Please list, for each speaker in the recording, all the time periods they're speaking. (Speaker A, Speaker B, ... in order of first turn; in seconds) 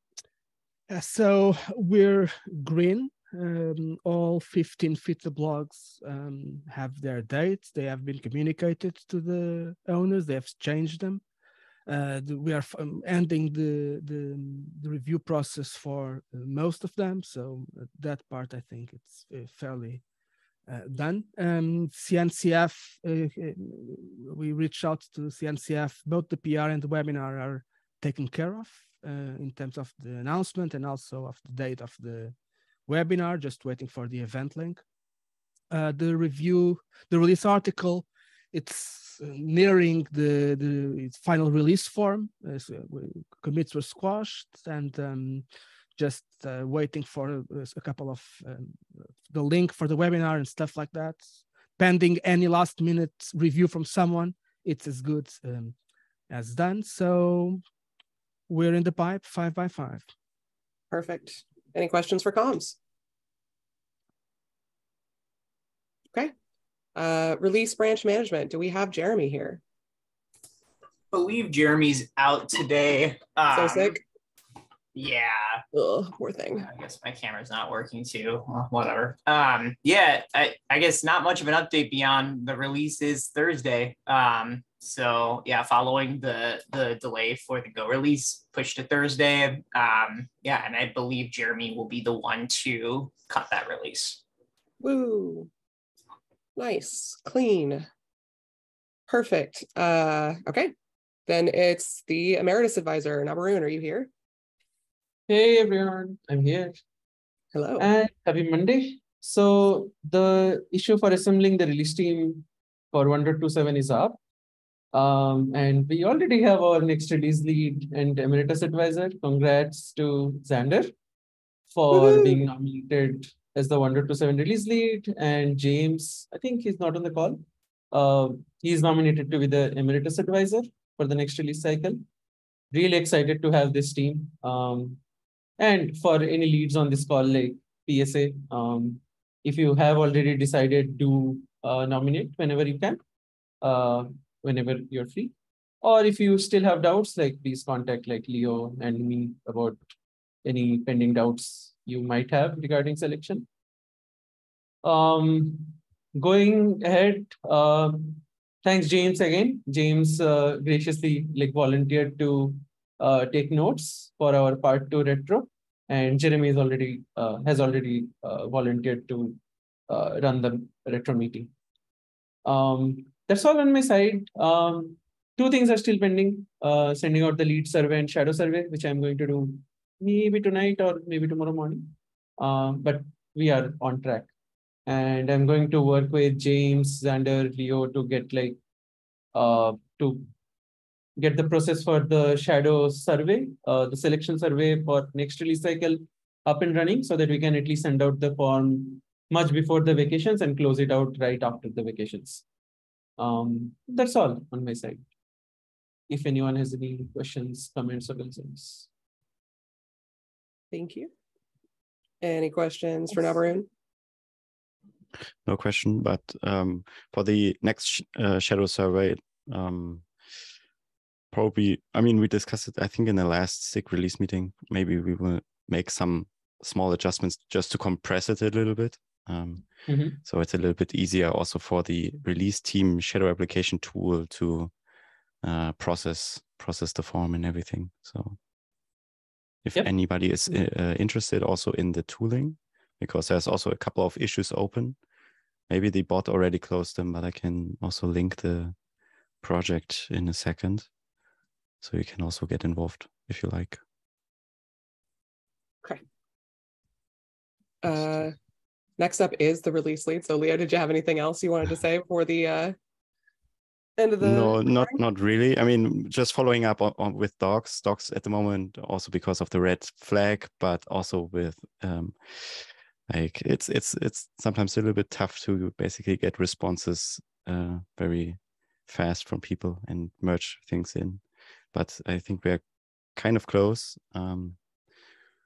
Speaker A: 0.9-11.2, 11.9-20.0, 20.7-32.4, 32.9-34.8, 35.7-45.5, 46.0-51.3, 51.8-55.8, 56.3-57.6, 58.5-60.0
Speaker B: 60.9-62.8, 67.0-69.6, 73.5-74.0, 75.7-76.7, 94.8-95.5, 96.6-97.9, 99.1-100.7, 101.3-104.1, 107.5-107.9, 121.9-122.4, 210.7-211.1, 212.2-213.7, 257.8-258.4, 259.0-262.8, 264.0-264.9
Speaker C: 71.1-74.0, 74.9-75.6, 76.7-94.2
Speaker D: 105.3-106.7, 107.8-114.2, 114.9-120.9, 121.7-132.0, 132.7-135.0, 135.6-143.0, 143.6-149.8, 150.4-153.5, 154.8-171.5, 172.5-184.3, 184.9-188.6, 189.3-190.3, 191.2-202.4, 203.2-205.0, 206.1-208.9, 229.9-230.2
Speaker E: 215.5-220.1, 221.3-234.7, 235.4-238.4, 239.6-245.0, 245.7-248.8, 249.4-250.9, 251.8-253.8, 264.2-282.6, 283.1-284.6